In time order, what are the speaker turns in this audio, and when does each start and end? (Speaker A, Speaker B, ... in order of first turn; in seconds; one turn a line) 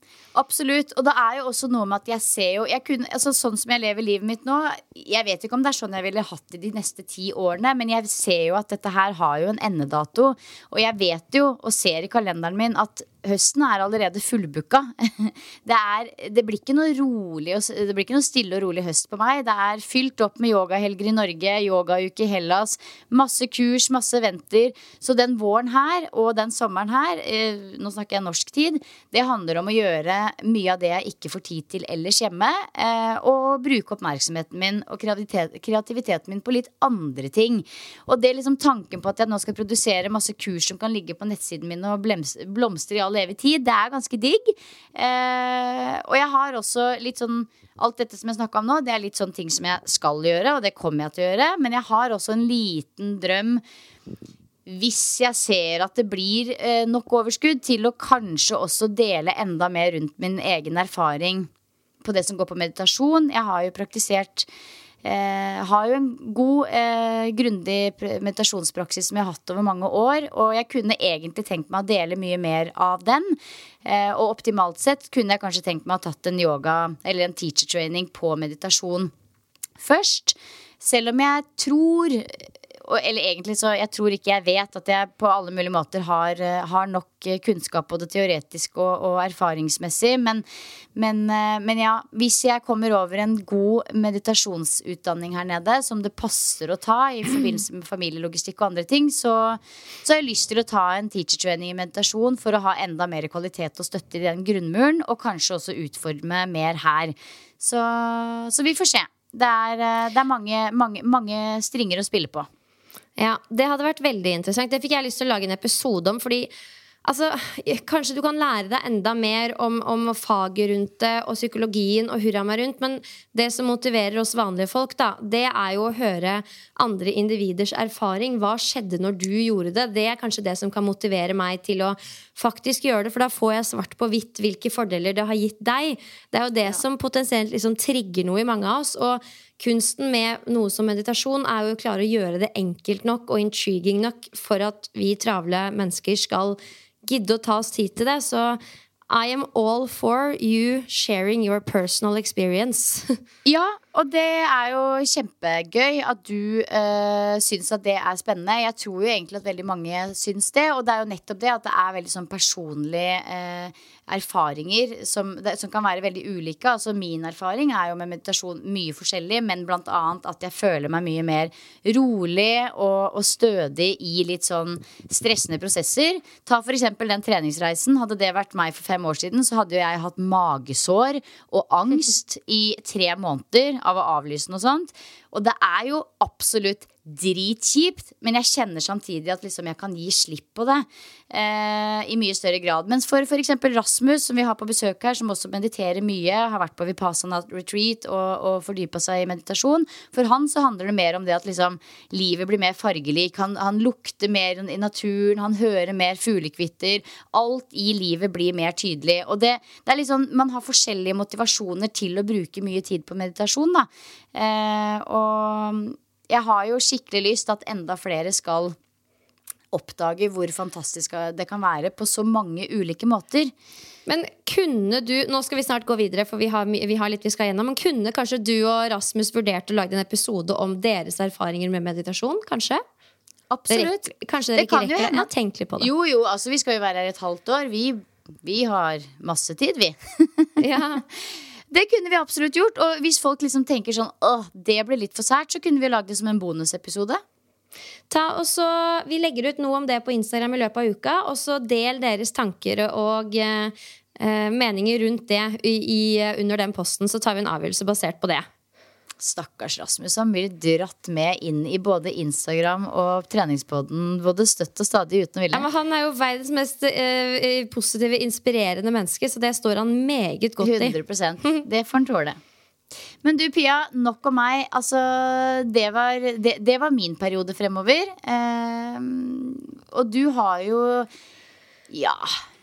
Speaker A: 0.3-53.6
Speaker A: 54.7-61.5
Speaker A: 62.0-64.5
Speaker A: 65.0-79.1
Speaker A: 79.8-90.4
Speaker A: 91.0-112.5
Speaker B: 113.2-116.5
Speaker B: 117.0-153.2
Speaker A: 153.5-218.8
Speaker A: 219.7-223.5
Speaker B: 224.1-232.8
Speaker A: 233.5-235.3
Speaker B: 233.7-235.9
Speaker A: 235.8-240.5
Speaker B: 240.6-241.0
Speaker A: 241.7-247.2
Speaker B: 248.1-258.5
Speaker A: 259.2-265.7
Speaker B: 265.5-271.0
Speaker A: 270.6-272.4
Speaker A: 273.2-281.1
Speaker A: 281.9-282.4